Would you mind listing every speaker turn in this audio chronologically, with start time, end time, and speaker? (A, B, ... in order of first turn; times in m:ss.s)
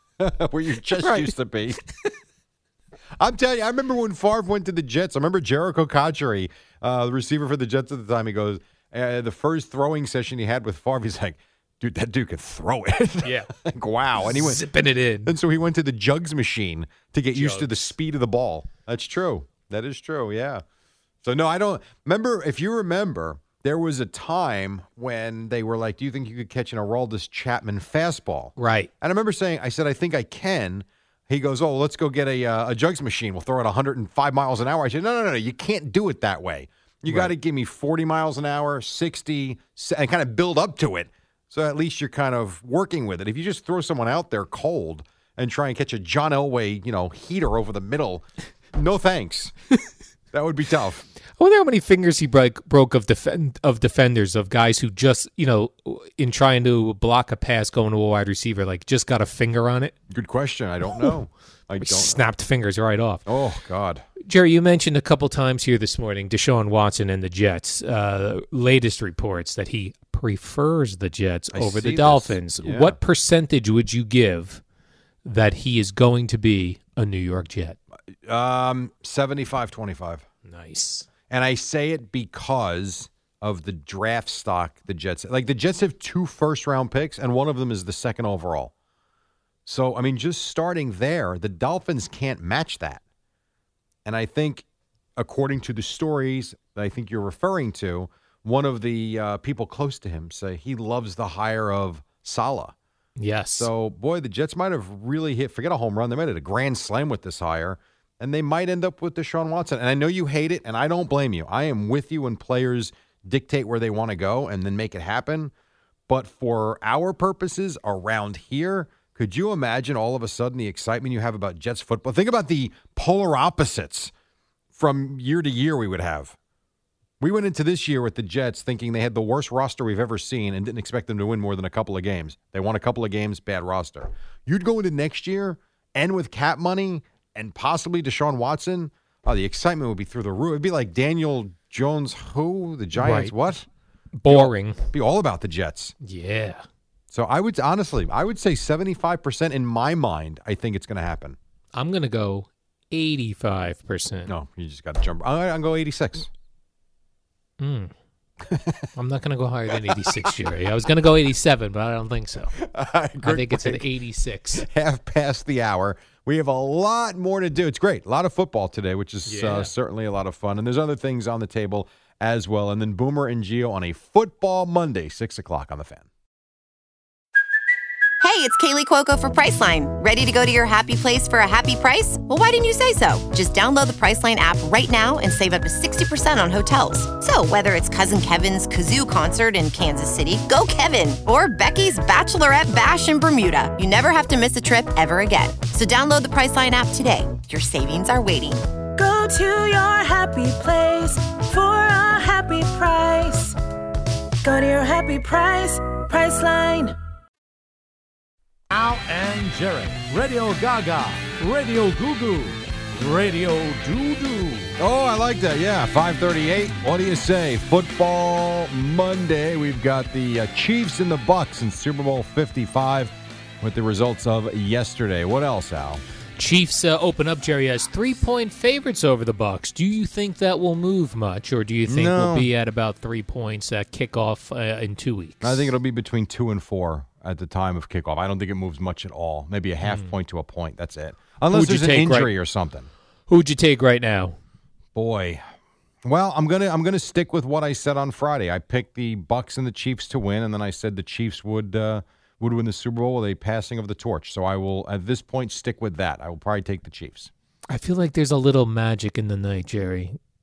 0:00.2-0:01.8 A
0:01.0-0:01.3 B
0:03.2-0:14.6 A
0:13.2-0:13.5 B
0:14.2-0:15.3 B
0:15.2-0:20.6 A
0:17.3-0:17.9 B
0:21.2-0:49.5 A
0:28.6-0:28.9 B
0:50.3-0:51.0 A
0:51.4-0:59.9 B
1:00.1-1:02.2 A
1:01.8-1:03.2 B
1:03.2-1:04.0 A
1:04.2-1:14.6 B
1:11.5-1:13.0 A
1:15.2-1:17.8 B
1:18.2-1:20.2 A
1:20.4-1:21.1 B
1:21.3-1:28.7 A
1:29.6-1:33.0 A
1:34.0-1:34.6 A
1:35.2-1:42.7 A
1:43.2-1:43.7 B
1:43.6-1:55.5 A
1:56.1-2:04.1 A
2:04.7-2:06.4 A
2:07.2-2:23.6 A
2:23.0-2:23.4 B
2:24.1-2:24.8 B
2:24.3-2:25.9 A
2:26.0-2:26.6 B
2:27.1-2:31.4 A
2:31.7-2:34.3 B
2:34.3-2:36.3 A
2:37.6-2:37.9 B
2:38.4-2:38.9 A
2:39.0-2:42.5 B
2:39.9-2:40.3 A
2:42.5-2:43.9 A
2:43.2-2:44.6 B
2:44.5-2:56.1 A
2:49.2-2:49.7 B
2:58.2-3:18.6 C
3:19.0-3:23.6 D
3:24.4-3:26.9 D
3:28.7-3:34.8 E
3:34.8-3:46.0 A
3:46.4-3:55.7 B
3:51.8-3:52.5 A
3:55.4-4:02.9 A
3:59.8-4:00.1 B
4:01.5-4:02.3 B
4:03.3-4:04.4 B
4:04.9-4:05.4 A
4:06.0-4:17.3 A
4:17.7-4:20.2 B